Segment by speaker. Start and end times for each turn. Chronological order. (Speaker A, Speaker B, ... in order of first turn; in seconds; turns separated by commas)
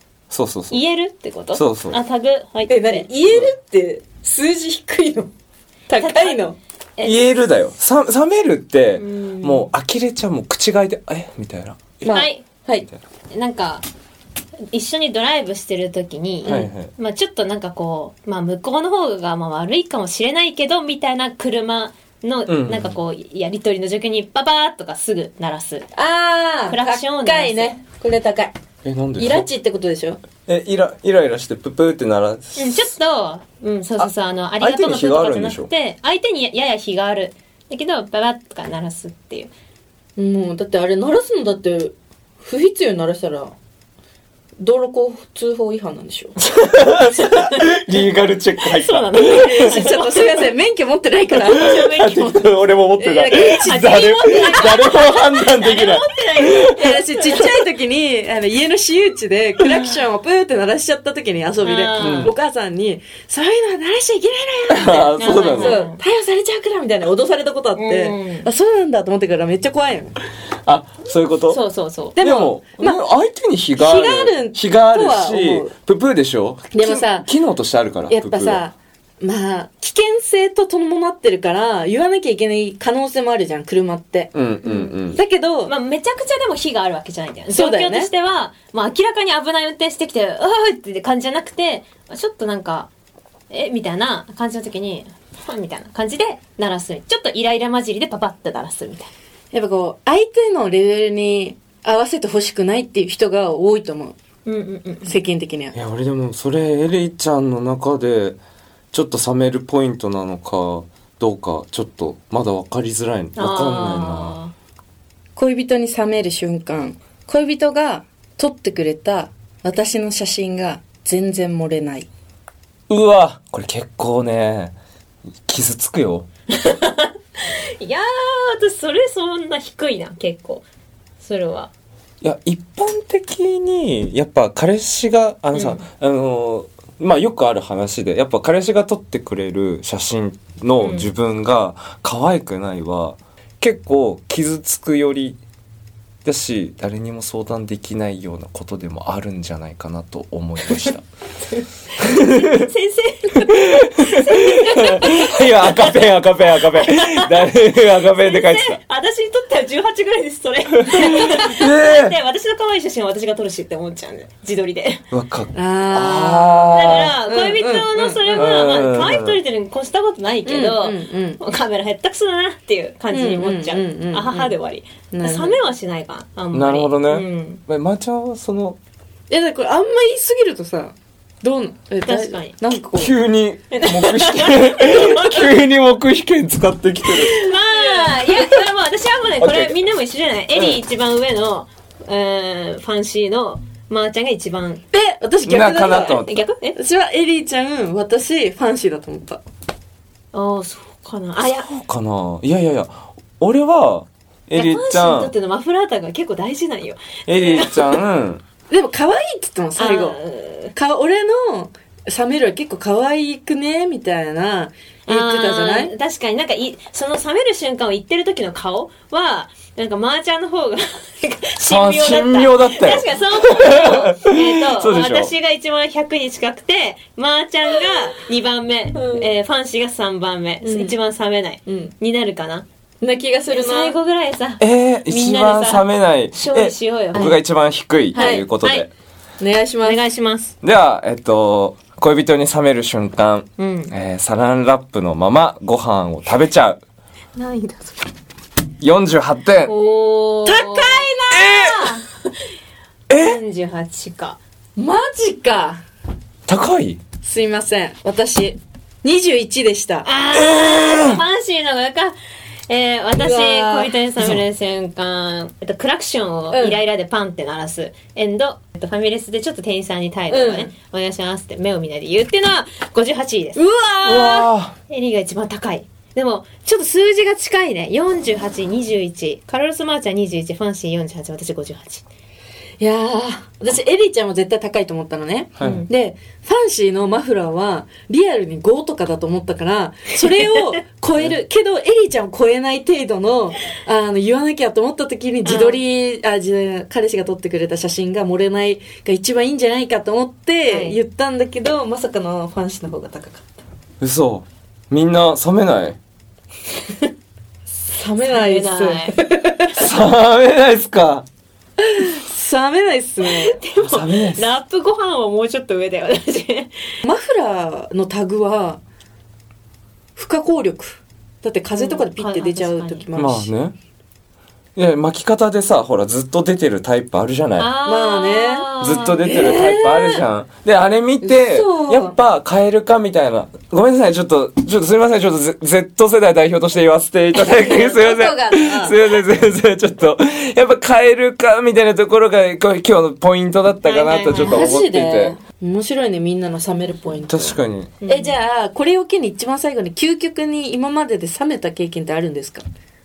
Speaker A: 0.3-0.8, Speaker B: 0.7-3.1, Speaker A: 1.5-2.0, Speaker C: 2.7-5.3, Speaker A: 3.3-3.5, Speaker C: 5.9-6.6, Speaker B: 5.9-7.4, Speaker A: 7.0-12.2, Speaker B: 9.0-9.7, Speaker C: 12.0-12.9, Speaker B: 12.1-12.4, Speaker B: 13.3-13.8, Speaker B: 14.7-25.9, Speaker C: 16.4-16.7, Speaker A: 16.4-16.9, Speaker A: 22.5-23.0, Speaker C: 25.9-28.5, Speaker B: 26.7-27.8, Speaker A: 28.8-29.5, Speaker C: 29.2-30.2, Speaker A: 30.5-32.9, Speaker B: 32.6-39.5, Speaker A: 34.0-35.7, Speaker C: 40.2-43.5, Speaker C: 44.6-46.4, Speaker A: 46.6-49.8, Speaker B: 47.2-47.7, Speaker B: 48.6-50.5, Speaker C: 49.2-51.8, Speaker B: 51.5-52.5, Speaker A: 51.5-56.8, Speaker C: 53.0-54.6, Speaker B: 53.6-57.6, Speaker C: 56.7-70.2, Speaker B: 61.6-62.3, Speaker A: 62.0-62.3, Speaker A: 64.7-65.8, Speaker B: 64.9-66.0, Speaker B: 67.8-68.5, Speaker A: 70.7-71.6, Speaker B: 71.5-72.2, Speaker C: 72.2-73.0, Speaker A: 72.2-78.6, Speaker C: 73.8-75.7, Speaker C: 76.7-77.3, Speaker C: 78.1-84.4, Speaker A: 84.3-85.2, Speaker B: 84.6-84.9, Speaker C: 85.1-85.7, Speaker B: 85.7-92.9, Speaker C: 87.5-88.1, Speaker B: 93.5-99.1, Speaker C: 99.5-104.2, Speaker B: 104.5-105.1, Speaker C: 105.1-105.8, Speaker A: 105.7-108.4, Speaker A: 108.9-114.4, Speaker B: 113.4-114.5, Speaker C: 115.4-122.1, Speaker A: 122.9-124.8, Speaker A: 125.5-126.3, Speaker B: 126.5-130.7, Speaker B: 131.2-131.7, Speaker A: 132.2-145.4, Speaker B: 135.5-135.8, Speaker B: 140.8-141.1, Speaker A: 146.2-151.1, Speaker B: 151.5-165.0, Speaker A: 152.0-152.7, Speaker A: 153.4-158.8, Speaker A: 160.8-162.2, Speaker A: 165.1-167.2, Speaker C: 165.5-168.6, Speaker B: 166.7-177.6, Speaker A: 168.3-169.4, Speaker C: 170.4-171.4, Speaker C: 173.1-174.5, Speaker C: 175.1-175.6, Speaker A: 176.5-178.8, Speaker C: 179.3-183.2, Speaker B: 182.1-182.6, Speaker A: 183.0-187.4, Speaker B: 183.7-185.5, Speaker B: 187.2-194.8, Speaker C: 187.7-188.6, Speaker A: 189.4-189.8, Speaker A: 190.5-190.8, Speaker C: 194.9-196.2, Speaker A: 195.4-196.3, Speaker B: 196.0-196.8, Speaker C: 196.8-199.4, Speaker B: 200.3-201.7, Speaker A: 201.4-205.3, Speaker B: 204.5-208.0, Speaker A: 207.3-208.4, Speaker C: 208.7-210.2, Speaker B: 209.8-210.7, Speaker C: 210.7-215.9, Speaker B: 215.1-232.7, Speaker A: 221.6-225.3, Speaker C: 228.9-229.3, Speaker C: 230.6-231.0, Speaker C: 231.7-231.9, Speaker C: 233.0-233.9, Speaker B: 233.5-237.4, Speaker A: 234.6-238.9, Speaker B: 238.1-238.9, Speaker C: 238.2-238.4, Speaker C: 239.4-240.0, Speaker B: 239.8-240.5, Speaker A: 240.6-246.8, Speaker B: 243.6-243.9, Speaker C: 247.4-247.9, Speaker A: 248.8-249.7, Speaker B: 249.7-252.1, Speaker C: 250.4-252.0, Speaker A: 251.3-251.9, Speaker A: 253.1-253.4, Speaker B: 253.1-254.4, Speaker C: 254.8-255.8, Speaker A: 256.5-257.0, Speaker C: 257.2-260.1, Speaker B: 260.0-262.2, Speaker A: 260.3-261.2, Speaker B: 262.7-273.6, Speaker C: 263.2-263.9, Speaker C: 266.5-266.8, Speaker C: 270.3-270.7, Speaker C: 273.6-274.5, Speaker A: 274.0-274.8, Speaker B: 274.9-282.0, Speaker C: 282.8-303.4, Speaker A: 285.6-285.9, Speaker B: 285.6-285.9, Speaker B: 295.4-295.8, Speaker B: 300.7-301.0, Speaker A: 304.0-306.0, Speaker C: 307.9-309.8, Speaker B: 308.2-309.2, Speaker A: 309.7-311.3, Speaker C: 311.8-313.6, Speaker B: 313.2-317.1, Speaker A: 313.8-314.4, Speaker C: 317.1-318.8, Speaker C: 320.2-323.5, Speaker B: 321.7-323.1, Speaker A: 323.1-323.8, Speaker A: 324.8-327.7, Speaker B: 327.6-329.5, Speaker C: 327.8-328.7, Speaker A: 328.8-345.4, Speaker C: 329.2-330.3, Speaker C: 331.2-332.2, Speaker C: 337.4-339.0, Speaker B: 343.8-344.7, Speaker C: 344.4-352.6, Speaker A: 347.3-347.9, Speaker B: 348.0-348.4